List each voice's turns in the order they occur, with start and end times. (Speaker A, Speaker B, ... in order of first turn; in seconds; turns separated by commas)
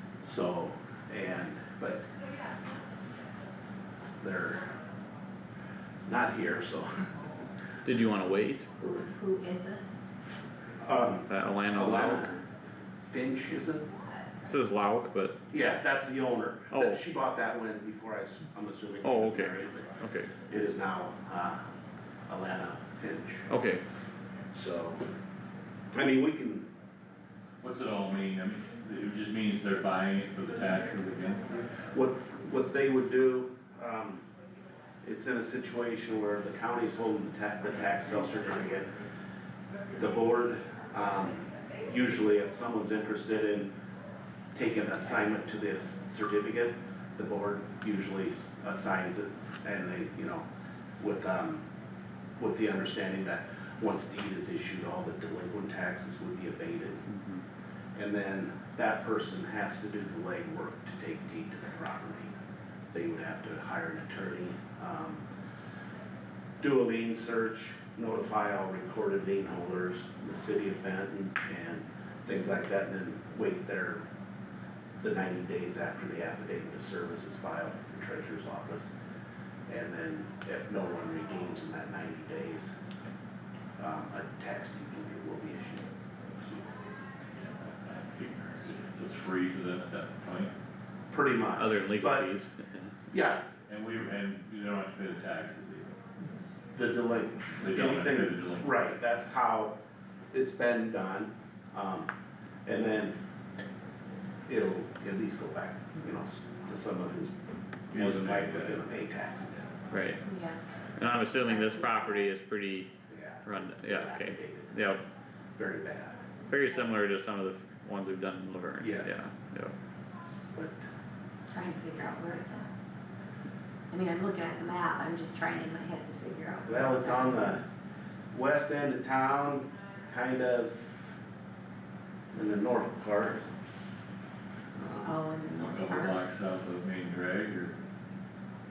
Speaker A: 0.2-2.1, Speaker A: 4.2-4.7, Speaker A: 6.0-7.1, Speaker B: 7.8-8.7, Speaker C: 8.8-9.8, Speaker A: 10.8-12.4, Speaker B: 11.3-12.3, Speaker A: 13.1-13.9, Speaker B: 14.4-15.4, Speaker A: 15.5-21.7, Speaker B: 16.7-17.0, Speaker B: 19.0-20.3, Speaker A: 22.3-23.5, Speaker B: 23.5-23.8, Speaker A: 24.5-25.1, Speaker A: 25.9-26.7, Speaker D: 27.6-31.8, Speaker A: 31.9-34.2, Speaker A: 35.0-39.0, Speaker A: 39.9-43.7, Speaker A: 44.5-50.5, Speaker A: 51.0-51.7, Speaker A: 52.4-57.1, Speaker B: 57.1-57.4, Speaker A: 58.0-62.3, Speaker A: 62.9-65.2, Speaker A: 66.6-74.0, Speaker A: 75.0-78.9, Speaker A: 79.7-82.8, Speaker A: 83.8-86.6, Speaker D: 87.3-90.5, Speaker A: 91.1-92.3, Speaker B: 91.6-92.9, Speaker A: 93.1-93.5, Speaker D: 93.7-96.0, Speaker A: 96.7-99.8, Speaker D: 97.5-98.8, Speaker A: 100.3-102.1, Speaker A: 102.7-103.2, Speaker A: 104.5-107.3, Speaker A: 107.9-109.8, Speaker D: 107.9-108.8, Speaker B: 109.9-110.2, Speaker C: 110.2-110.6, Speaker B: 111.0-112.9, Speaker C: 111.5-112.2, Speaker A: 113.1-115.0, Speaker B: 113.5-115.0, Speaker A: 115.6-116.2, Speaker B: 116.5-119.7, Speaker A: 118.8-119.2, Speaker A: 120.5-120.9, Speaker C: 121.5-122.7, Speaker C: 123.9-127.5, Speaker A: 126.7-127.6, Speaker A: 128.3-130.9, Speaker A: 132.3-133.4, Speaker A: 134.8-135.2, Speaker C: 135.0-136.2, Speaker D: 135.5-137.7